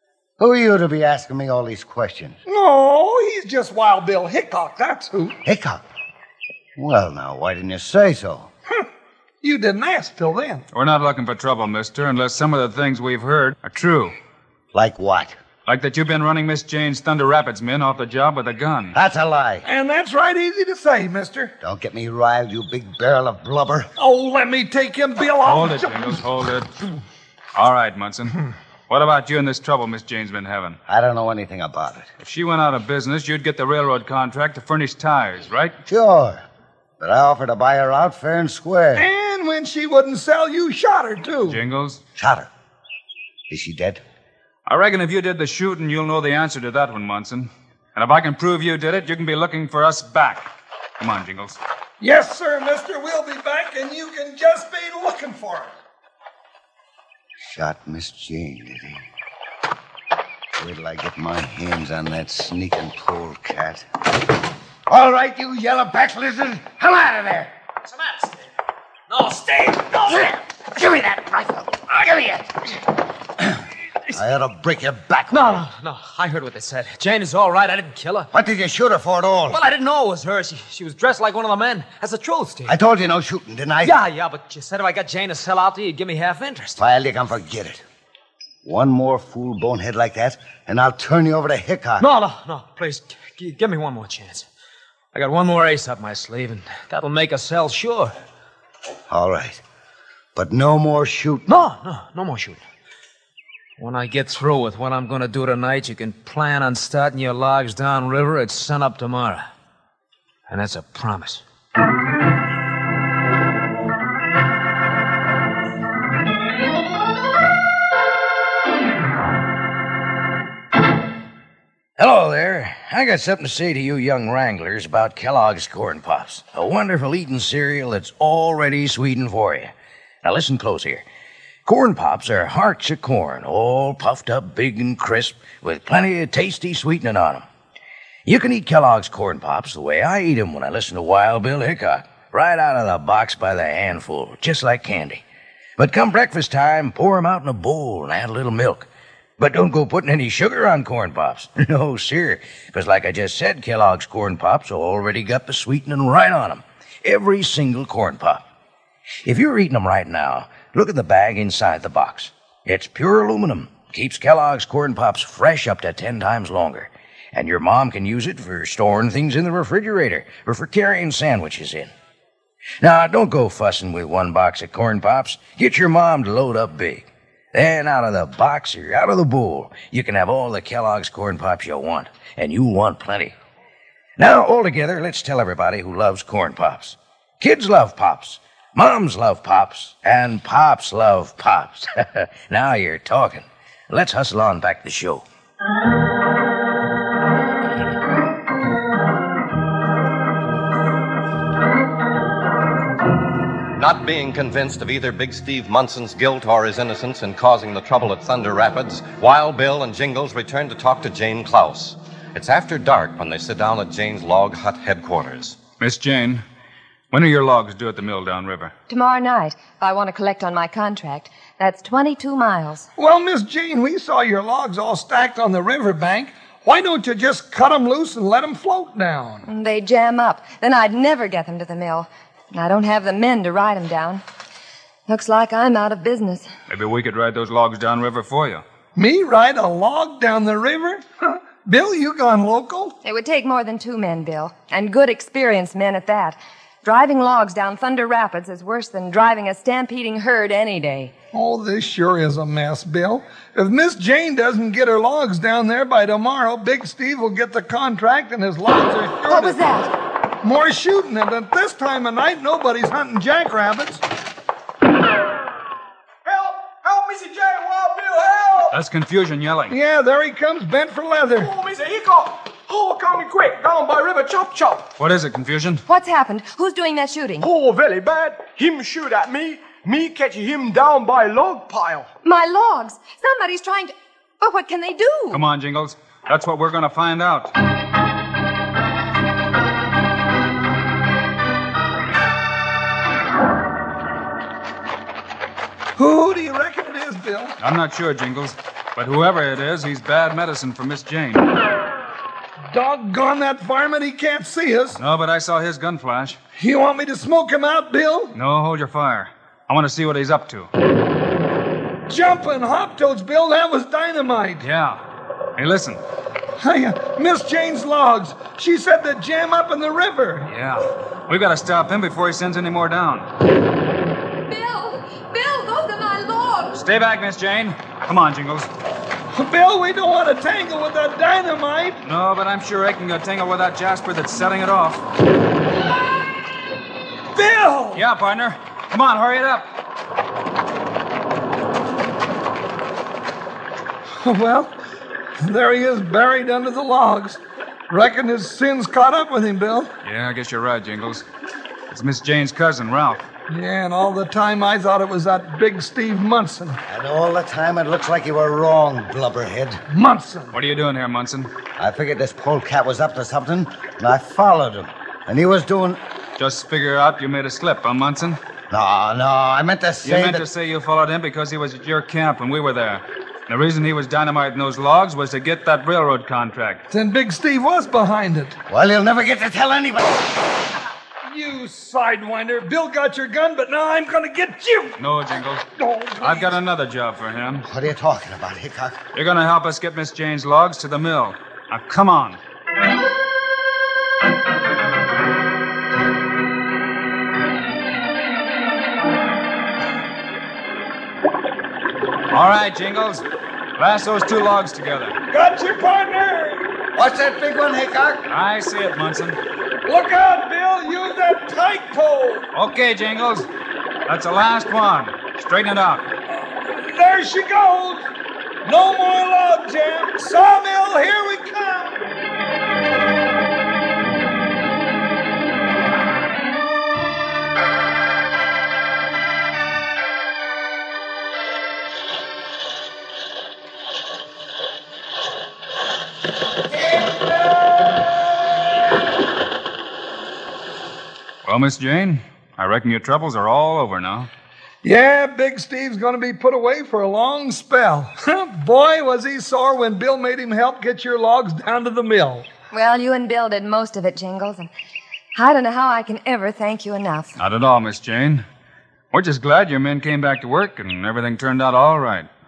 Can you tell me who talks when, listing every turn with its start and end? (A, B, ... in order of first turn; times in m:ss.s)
0:00.4-0:02.4 A
0:02.4-0:05.4 B
0:05.4-0:05.8 A
0:06.8-0:08.5 A
0:09.4-0:10.6 B
0:10.7-0:14.1 C
0:14.7-0:15.3 A
0:15.7-0:18.9 C
0:18.9-0:19.6 A
0:19.6-0:21.5 B
0:21.6-0:23.9 A
0:24.0-0:26.2 B
0:25.4-0:26.7 C
0:27.5-0:30.8 C
0:30.9-0:32.1 A
0:32.2-0:35.7 C
0:35.9-0:36.4 A
0:37.0-0:39.0 A
0:39.0-0:41.6 B
0:41.4-0:42.0 C
0:42.2-0:42.5 A
0:43.5-0:44.0 A
0:44.7-0:51.6 C
0:52.0-0:55.7 B
0:57.4-0:59.0 A
1:00.6-1:03.8 A
1:04.9-1:07.5 A
1:07.9-1:08.4 D
1:09.1-1:10.4 D
1:10.8-1:12.4 A
1:11.0-1:11.5 D
1:14.1-1:15.6 A
1:15.3-1:18.3 D
1:18.3-1:19.6 A
1:19.5-1:22.7 D
1:22.7-1:24.0 A
1:23.8-1:26.8 D
1:26.8-1:27.8 A
1:28.6-1:32.0 A
1:32.0-1:34.4 D
1:35.1-1:38.1 D
1:39.1-1:39.6 A
1:40.3-1:41.4 A
1:41.5-1:42.6 D
1:43.8-1:49.4 D
1:50.5-1:51.4 D
2:02.0-2:09.7 E
2:10.2-2:11.0 E
2:11.6-2:17.4 E
2:18.2-2:25.2 E
2:25.8-2:28.9 E
2:29.4-2:38.4 E
2:39.2-2:51.9 E
2:52.8-3:03.4 E
3:04.2-3:15.2 E
3:23.8-3:35.6 F
3:35.8-3:36.4 C
3:37.1-3:38.7 C
3:38.9-3:42.9 G
3:43.0-3:49.4 B
3:49.5-3:54.2 G
3:55.1-3:56.5 G
3:56.7-3:58.6 C
3:59.0-4:02.9 B
4:03.0-4:11.1 G
4:11.3-4:19.6 B
4:19.3-4:19.9 G
4:20.4-4:24.0 B
4:26.2-4:28.8 H
4:28.7-4:29.8 C
4:29.7-4:31.5 B
4:31.4-4:34.8 H
4:35.0-4:35.8 C
4:35.9-4:37.5 G
4:37.4-4:42.1 H
4:42.2-4:45.4 G
4:45.3-4:47.5 C
4:56.0-4:57.5 B
4:57.6-5:01.5 C
5:02.7-5:05.0 B
5:04.9-5:06.4 C
5:06.6-5:08.3 B
5:08.3-5:10.7 C
5:12.1-5:14.6 B
5:14.6-5:15.0 C
5:15.6-5:16.0 C
5:16.6-5:20.5 B
5:20.5-5:23.3 C
5:24.5-5:26.8 G
5:26.8-5:28.7 C
5:29.3-5:32.0 B
5:32.0-5:35.0 C
5:37.3-5:38.0 B
5:37.9-5:39.7 C
5:44.2-5:44.8 B
5:45.4-5:49.9 B
5:50.0-5:51.2 C
5:51.9-5:53.3 C
5:53.5-5:56.8 B
5:56.9-5:59.8 A
5:59.9-6:00.5 B
6:00.5-6:01.5 C
6:01.8-6:06.0 A
6:06.4-6:08.4 C
6:08.7-6:10.4 A
6:10.0-6:16.8 C
6:16.9-6:18.6 B
6:18.7-6:20.4 A
6:21.2-6:25.0 B
6:25.0-6:25.6 C
6:25.7-6:26.5 B
6:26.2-6:27.6 C
6:27.6-6:29.0 A
6:29.1-6:32.4 C
6:42.3-6:43.2 C
6:43.8-6:45.1 C
6:45.3-6:46.7 B
6:46.9-6:48.2 A
6:48.3-6:49.4 C
6:49.8-6:52.5 B
6:52.5-6:53.5 C
6:54.0-6:56.1 C
6:56.3-6:58.1 B
6:58.6-7:02.1 B
7:16.9-7:18.1 B
7:21.4-7:24.3 C
7:24.8-7:32.5 B
7:32.7-7:34.7 G
7:35.3-7:37.4 G
7:37.4-7:38.4 C
7:39.1-7:42.3 C